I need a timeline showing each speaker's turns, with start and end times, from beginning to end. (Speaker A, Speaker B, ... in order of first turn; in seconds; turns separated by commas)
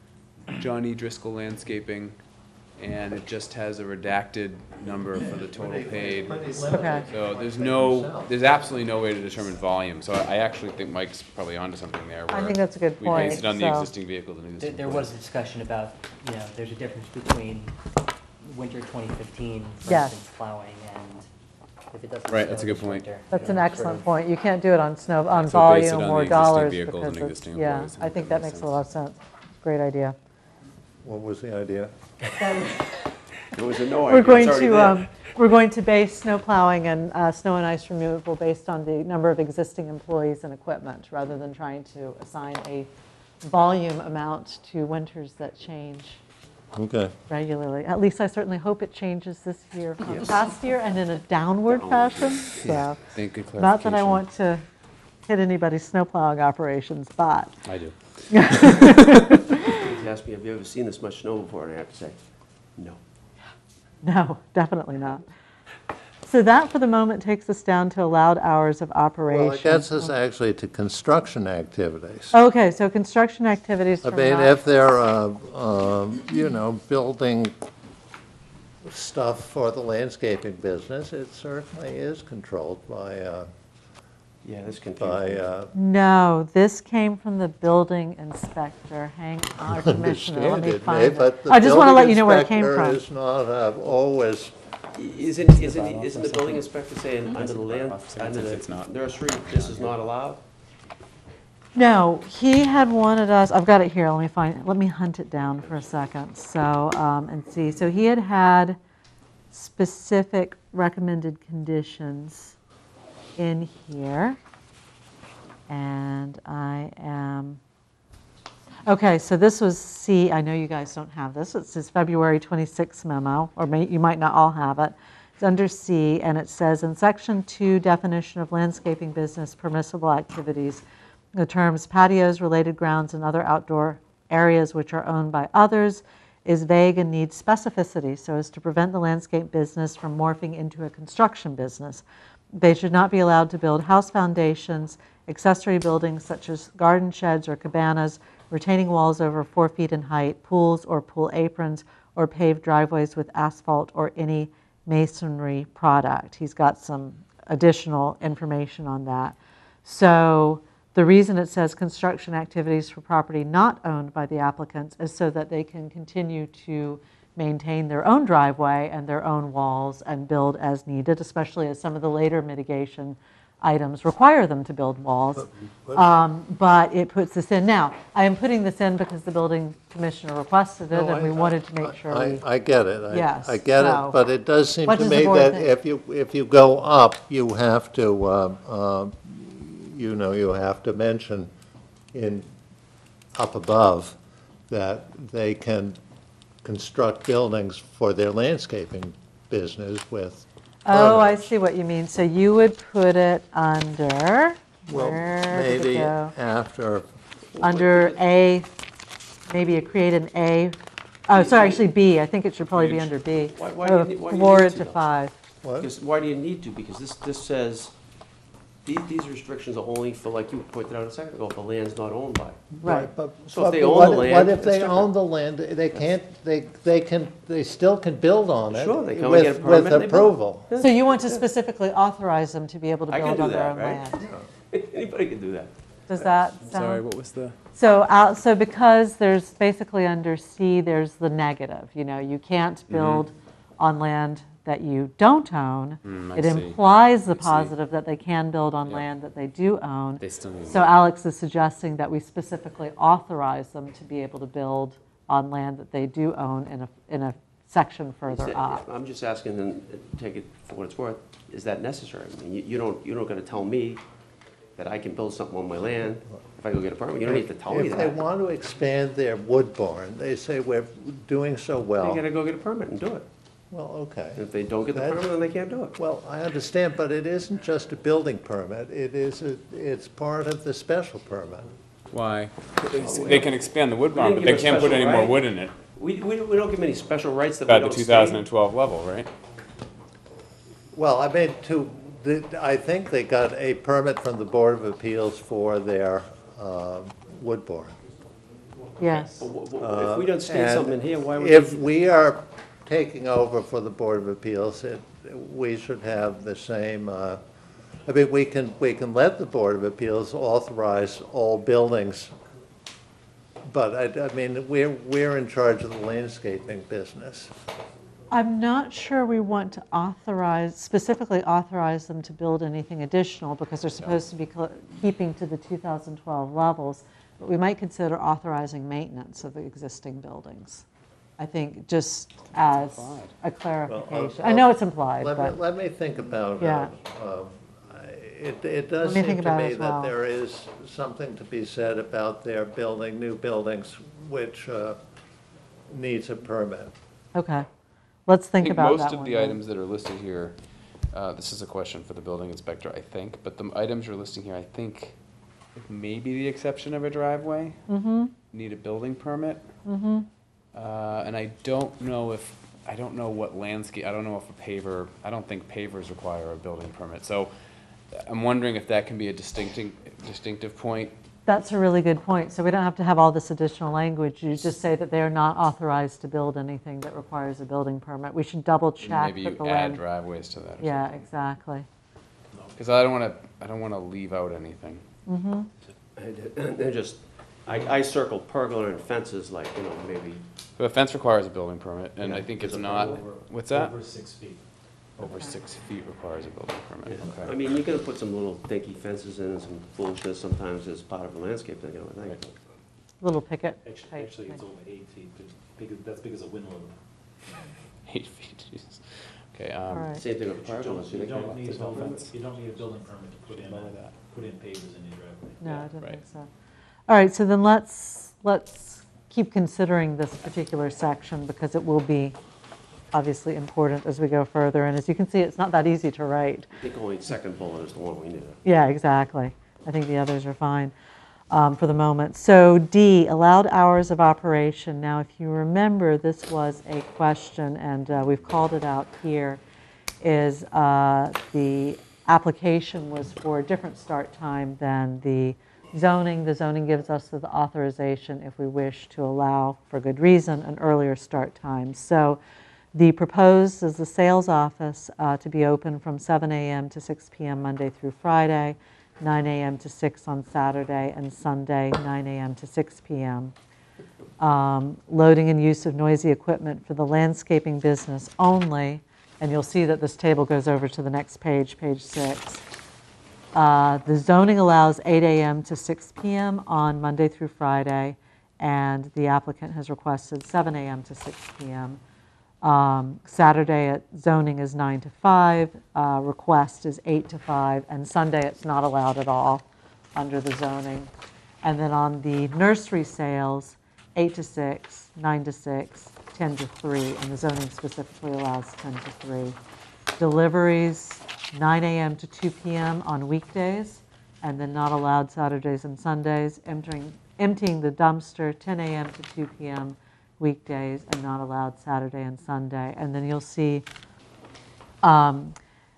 Speaker A: 0.5-2.1, Speaker A: 2.8-15.1, Speaker B: 5.2-8.4, Speaker C: 6.7-7.0, Speaker C: 12.3-13.9, Speaker D: 14.6-17.8, Speaker D: 18.4-21.3, Speaker C: 19.9-20.1, Speaker D: 21.9-24.1, Speaker A: 22.3-23.5, Speaker C: 23.3-30.1, Speaker A: 25.3-28.8, Speaker B: 31.0-31.9, Speaker C: 32.4-32.8, Speaker E: 33.5-35.1, Speaker C: 34.1-42.9, Speaker C: 43.4-46.2, Speaker B: 46.7-47.1, Speaker C: 47.3-53.0, Speaker E: 50.0-50.4, Speaker E: 51.7-52.9, Speaker A: 52.6-54.2, Speaker C: 53.5-54.6, Speaker C: 55.3-57.5, Speaker A: 57.6-59.2, Speaker C: 58.3-59.8, Speaker E: 59.7-62.2, Speaker E: 62.7-63.0, Speaker C: 64.0-65.3, Speaker C: 66.2-70.1, Speaker B: 69.3-72.3, Speaker C: 72.3-74.5, Speaker B: 74.0-77.5, Speaker B: 78.8-83.5, Speaker E: 84.4-85.4, Speaker B: 85.0-85.7, Speaker C: 85.7-93.0, Speaker B: 89.7-94.5, Speaker E: 94.9-100.4, Speaker A: 95.4-96.7, Speaker A: 97.2-100.0, Speaker C: 101.7-108.8, Speaker C: 109.5-112.5, Speaker C: 113.4-114.4, Speaker C: 115.7-117.6, Speaker C: 118.9-130.8, Speaker C: 131.3-182.4, Speaker B: 175.4-176.1, Speaker B: 180.9-191.5, Speaker C: 183.1-184.2, Speaker C: 184.8-185.7, Speaker B: 192.1-192.5, Speaker B: 193.3-194.2, Speaker B: 194.7-196.0, Speaker B: 196.6-201.4, Speaker C: 200.8-206.3, Speaker B: 204.9-207.1, Speaker E: 207.6-208.2, Speaker C: 207.6-208.7, Speaker C: 209.5-215.3, Speaker E: 211.3-211.8, Speaker E: 213.2-215.0, Speaker B: 215.6-215.9, Speaker E: 215.8-217.9, Speaker E: 218.8-222.7, Speaker B: 222.7-230.7, Speaker C: 222.8-223.1, Speaker E: 223.5-225.1, Speaker E: 228.7-231.4, Speaker C: 230.8-234.3, Speaker E: 233.1-234.1, Speaker E: 234.7-235.7, Speaker C: 236.1-237.0, Speaker A: 236.6-237.6, Speaker C: 237.7-258.8, Speaker A: 242.9-243.2, Speaker A: 246.0-247.7, Speaker A: 250.2-250.8, Speaker E: 258.2-264.0, Speaker E: 264.8-268.2, Speaker B: 267.2-272.2, Speaker E: 272.0-273.3, Speaker B: 273.7-275.3, Speaker E: 274.4-276.0, Speaker B: 275.9-281.7, Speaker A: 282.1-285.7, Speaker E: 282.8-283.6, Speaker E: 284.1-285.4, Speaker E: 285.9-288.4, Speaker A: 287.7-289.3, Speaker B: 290.9-297.9, Speaker C: 299.0-299.4, Speaker E: 299.3-301.8, Speaker B: 299.8-307.4, Speaker B: 308.1-312.3, Speaker B: 313.6-317.5, Speaker C: 318.3-330.8, Speaker C: 331.4-335.6, Speaker A: 332.6-333.3, Speaker B: 333.9-345.0, Speaker C: 336.6-336.9, Speaker C: 339.0-340.1, Speaker B: 345.9-346.9, Speaker C: 347.3-347.7, Speaker C: 348.3-349.6, Speaker A: 348.6-350.6, Speaker A: 351.1-355.1, Speaker A: 355.7-357.9, Speaker C: 357.9-358.3, Speaker A: 358.5-359.7, Speaker C: 359.8-360.3, Speaker A: 360.7-367.5, Speaker A: 368.1-371.1, Speaker C: 371.4-380.0, Speaker A: 379.0-381.2, Speaker C: 380.8-381.9, Speaker A: 382.7-385.0, Speaker C: 385.3-385.7, Speaker E: 386.1-390.4, Speaker A: 390.8-393.9, Speaker E: 392.2-393.2, Speaker F: 392.7-394.6, Speaker A: 395.2-397.5, Speaker C: 395.2-395.5, Speaker E: 397.1-402.5, Speaker C: 403.2-404.6, Speaker F: 403.8-407.0, Speaker A: 408.1-410.1, Speaker C: 409.9-410.2, Speaker E: 410.1-412.2, Speaker F: 410.5-415.9, Speaker A: 411.6-412.3, Speaker A: 413.5-414.1, Speaker C: 415.6-416.5, Speaker C: 417.1-422.4, Speaker C: 423.1-426.7, Speaker E: 426.8-428.6, Speaker C: 428.6-430.9, Speaker C: 431.5-439.6, Speaker C: 440.2-452.4, Speaker C: 452.9-463.5, Speaker C: 464.4-472.6, Speaker C: 473.5-482.0, Speaker C: 482.6-491.1, Speaker C: 491.6-499.6, Speaker C: 500.2-513.8, Speaker C: 515.0-515.5